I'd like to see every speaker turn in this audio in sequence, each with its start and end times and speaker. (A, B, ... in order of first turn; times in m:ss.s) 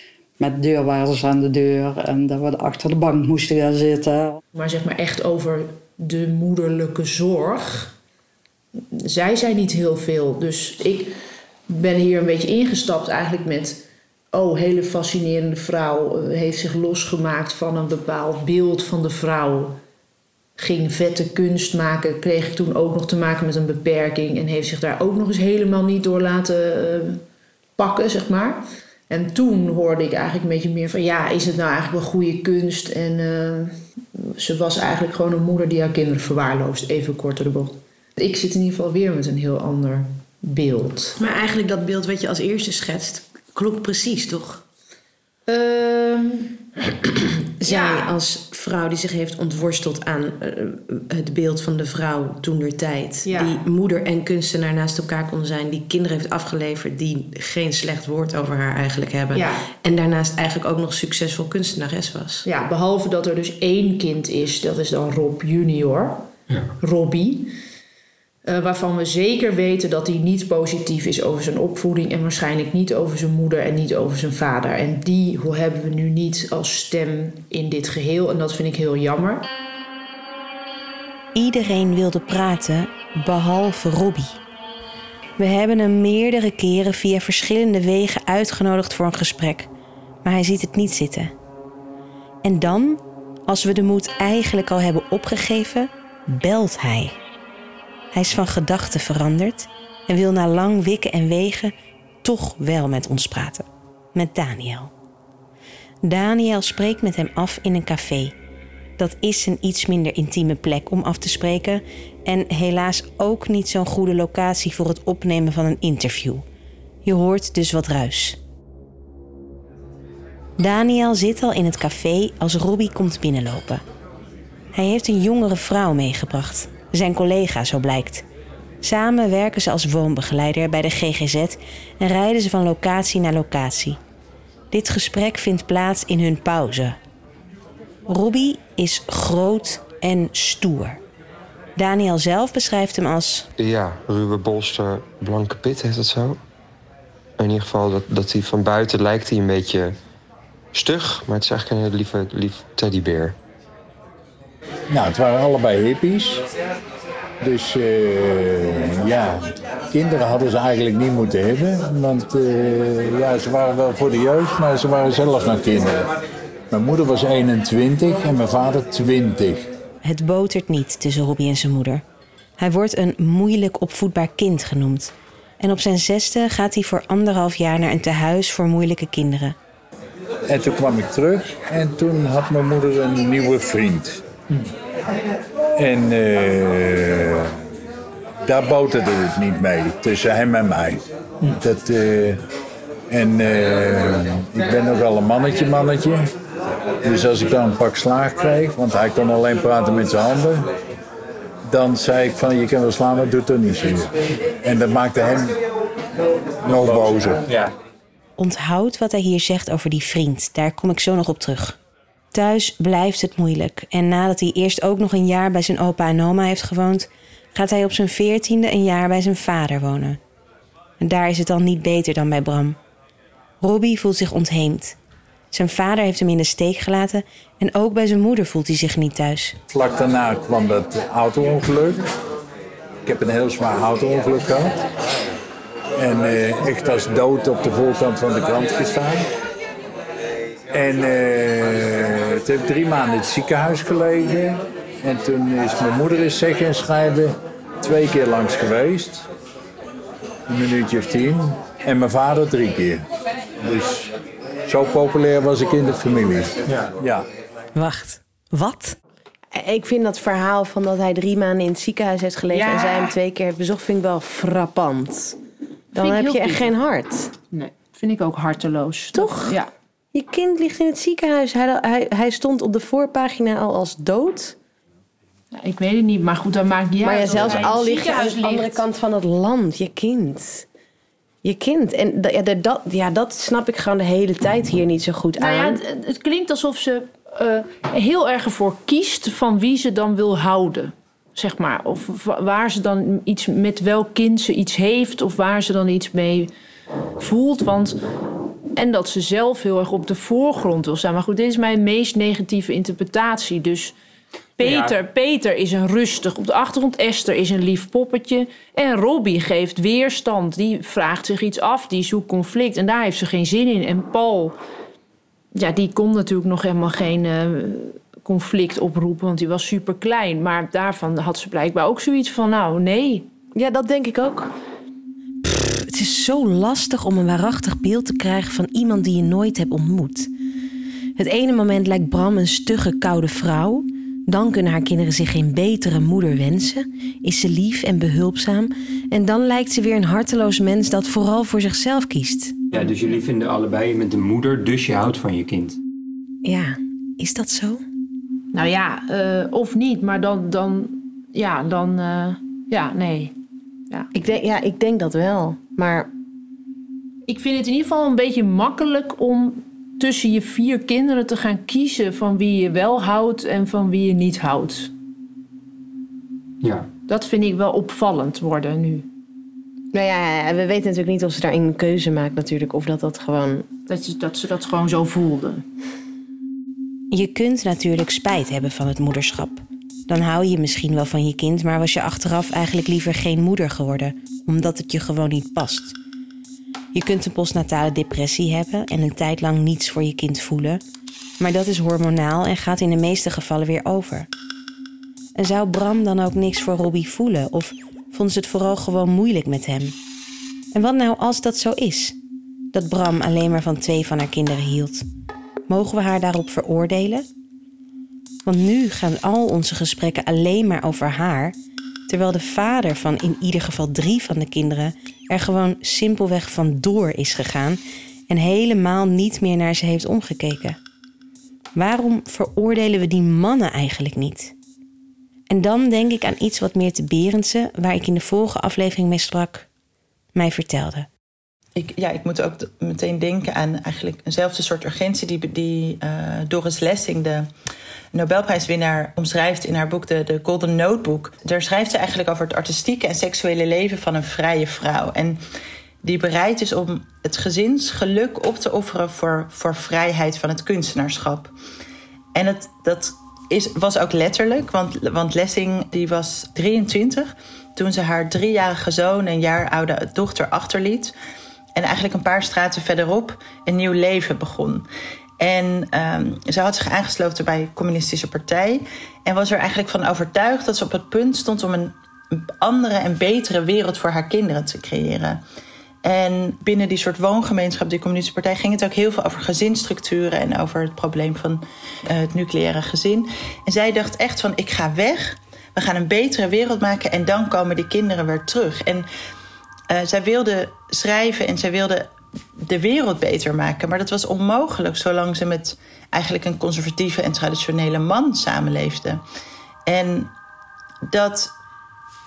0:00.4-0:04.4 A
0:04.5-0:07.9 B
0:08.9-0:11.2 B
0:11.7-0:19.8 B
0:20.6-0:27.2 B
0:27.8-0:41.2 B
0:41.2-0:44.6 C
0:45.5-0:46.6 B
0:47.6-1:02.5 C
0:47.6-0:48.2 B
0:53.2-0:53.6 B
0:59.3-0:59.6 B
1:02.4-1:06.3 B
1:06.8-1:07.5 B
1:08.4-1:19.5 B
1:21.3-1:24.3 C
1:25.4-1:29.7 C
1:30.2-1:31.3 C
1:32.4-1:37.1 C
1:38.1-1:41.7 C
1:42.2-1:44.9 C
1:46.0-1:48.3 C
1:49.0-1:56.4 C
1:57.0-1:58.4 C
2:00.6-2:03.8 C
2:04.7-2:08.2 C
2:08.8-2:14.0 C
2:14.7-2:17.0 C
2:18.1-2:21.0 C
2:21.8-2:23.5 C
2:23.6-2:26.4 D
2:27.4-2:30.0 D
2:30.7-2:33.4 D
2:34.9-2:36.4 E
2:37.4-2:46.1 E
2:46.7-2:49.6 E
2:50.0-2:52.0 C
2:52.6-2:59.6 C
3:00.5-3:04.2 E
3:05.8-3:07.6 E
3:08.4-3:11.0 E
3:11.6-3:12.4 E
3:13.1-3:16.3 E
3:17.0-3:20.7 E
3:21.7-3:25.6 E
3:26.6-3:27.4 E
3:26.6-3:27.7 F
3:28.4-3:31.8 C
3:32.3-3:40.2 C
3:41.0-3:42.8 C
3:43.6-3:45.0 C
3:45.5-3:49.6 C
3:49.7-3:52.0 E
3:53.0-3:54.7 E
3:56.0-3:59.3 E
4:00.7-4:09.2 E
4:10.5-4:13.0 E
4:13.6-4:14.1 E
4:14.7-4:17.2 E
4:17.7-4:19.0 C
4:19.5-4:25.4 C
4:22.5-4:23.1 B
4:25.9-4:26.7 B
4:25.9-4:27.3 C
4:27.5-4:29.7 B
4:29.1-4:29.6 C
4:30.1-4:34.5 C
4:35.5-4:38.8 B
4:37.0-4:40.6 C
4:41.4-4:45.8 C
4:45.4-4:56.5 B
4:57.2-4:58.0 B
4:58.7-5:03.9 B
5:04.6-5:04.9 F
5:04.6-5:14.6 B
5:15.5-5:23.2 B
5:23.5-5:24.5 C
5:25.4-5:30.3 C
5:31.2-5:42.5 C
5:42.7-5:45.8 F
5:46.4-5:47.8 C
5:48.5-5:53.3 B
5:54.1-5:56.1 C
5:57.3-6:04.9 B
6:06.6-6:06.9 F
6:07.1-6:09.0 B
6:09.9-6:13.7 C
6:13.9-6:15.6 B
6:17.1-6:26.0 C
6:26.9-6:30.8 C
6:31.4-6:34.3 C
6:35.4-6:40.0 C
6:40.7-6:42.1 C
6:42.7-6:45.0 C
6:45.7-6:47.2 C
6:48.4-6:51.5 C
6:52.1-7:00.8 C
7:01.8-7:04.5 C
7:05.5-7:09.7 C
7:10.3-7:11.1 C
7:11.8-7:17.5 G
7:18.1-7:25.4 G
7:26.0-7:31.5 G
7:32.3-7:41.1 G
7:41.8-7:44.8 G
7:45.4-7:55.4 G
7:56.0-8:09.1 G
8:09.9-8:19.2 G
8:19.8-8:20.3 G
8:21.0-8:21.5 G